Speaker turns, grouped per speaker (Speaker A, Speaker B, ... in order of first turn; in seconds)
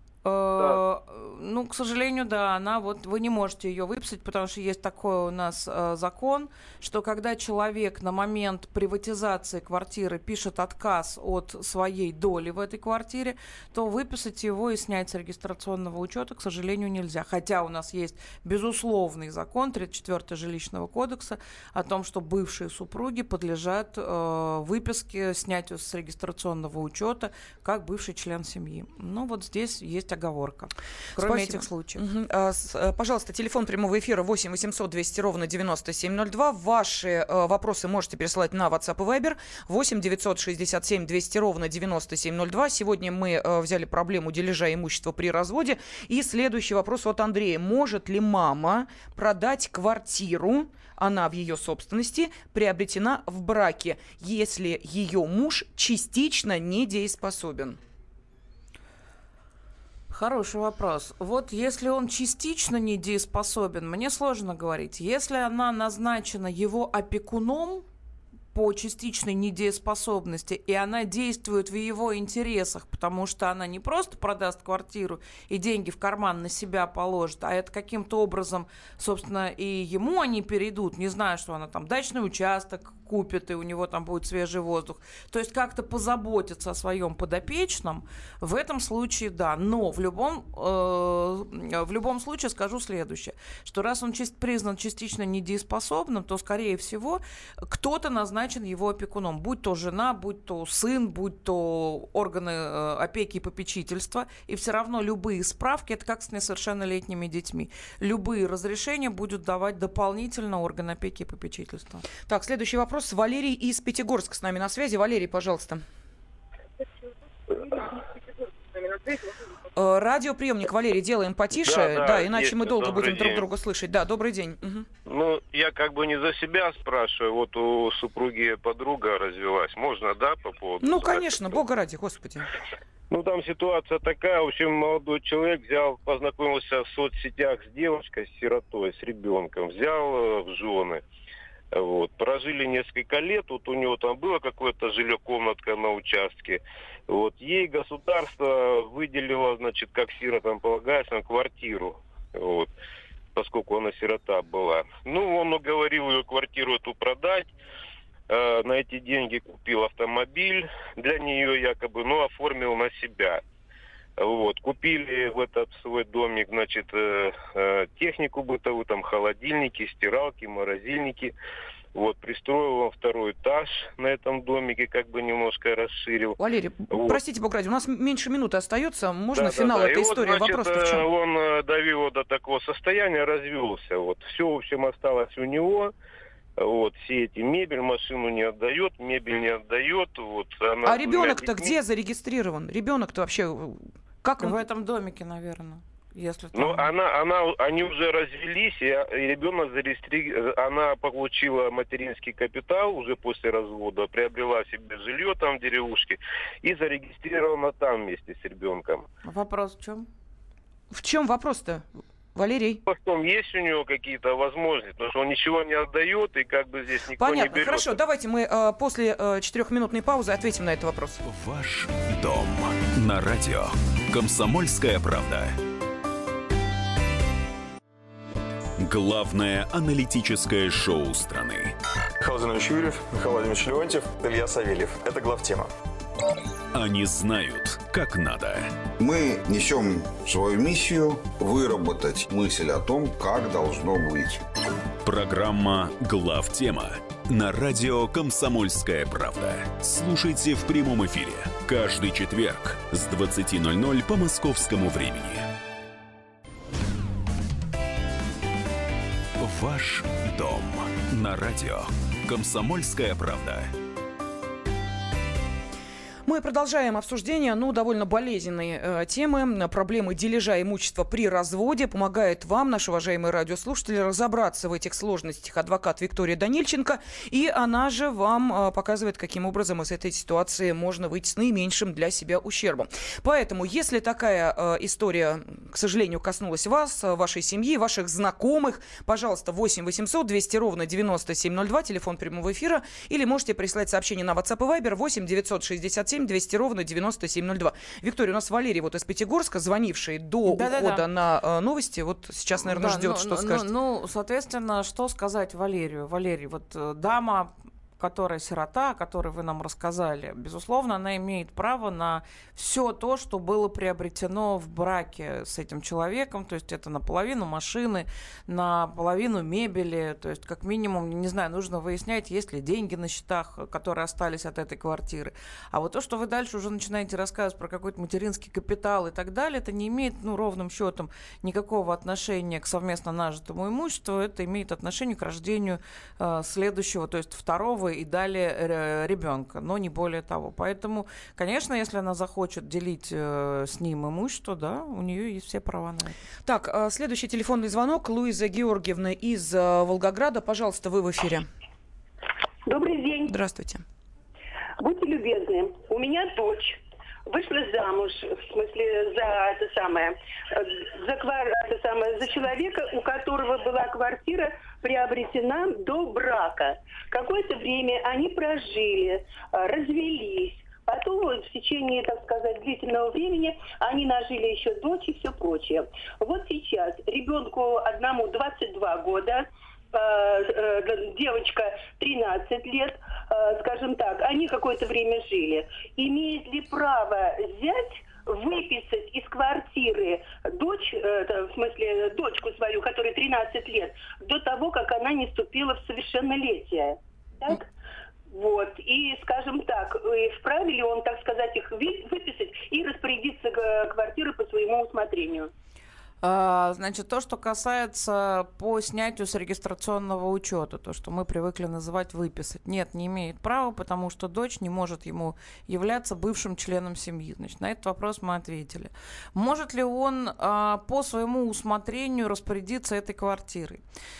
Speaker A: 0.2-32.0, 60.1-67.8, 68.5-112.0, 194.4-196.9, 209.2-210.1, 300.5-301.1, 302.6-346.1, 406.2-423.8
Speaker B: 31.1-57.8, 112.2-115.8, 119.7-124.9, 130.8-132.5, 176.4-181.0, 190.8-194.6, 210.9-212.8, 217.2-221.2, 266.2-303.7, 346.4-351.5, 353.3-353.8
Speaker C: 121.6-123.5, 125.0-131.6, 133.1-141.0, 141.7-152.7, 153.3-157.5, 158.3-163.4, 164.2-171.3, 171.9-176.4, 176.9-177.2, 179.3-185.9, 186.6-191.7, 196.5-209.1, 212.9-217.9
Speaker D: 221.2-225.6, 228.8-231.7, 236.7-238.7, 245.0-255.5, 259.4-263.7
Speaker E: 232.2-235.7
Speaker F: 239.0-244.4
Speaker G: 352.6-353.3, 354.8-397.7, 398.3-405.5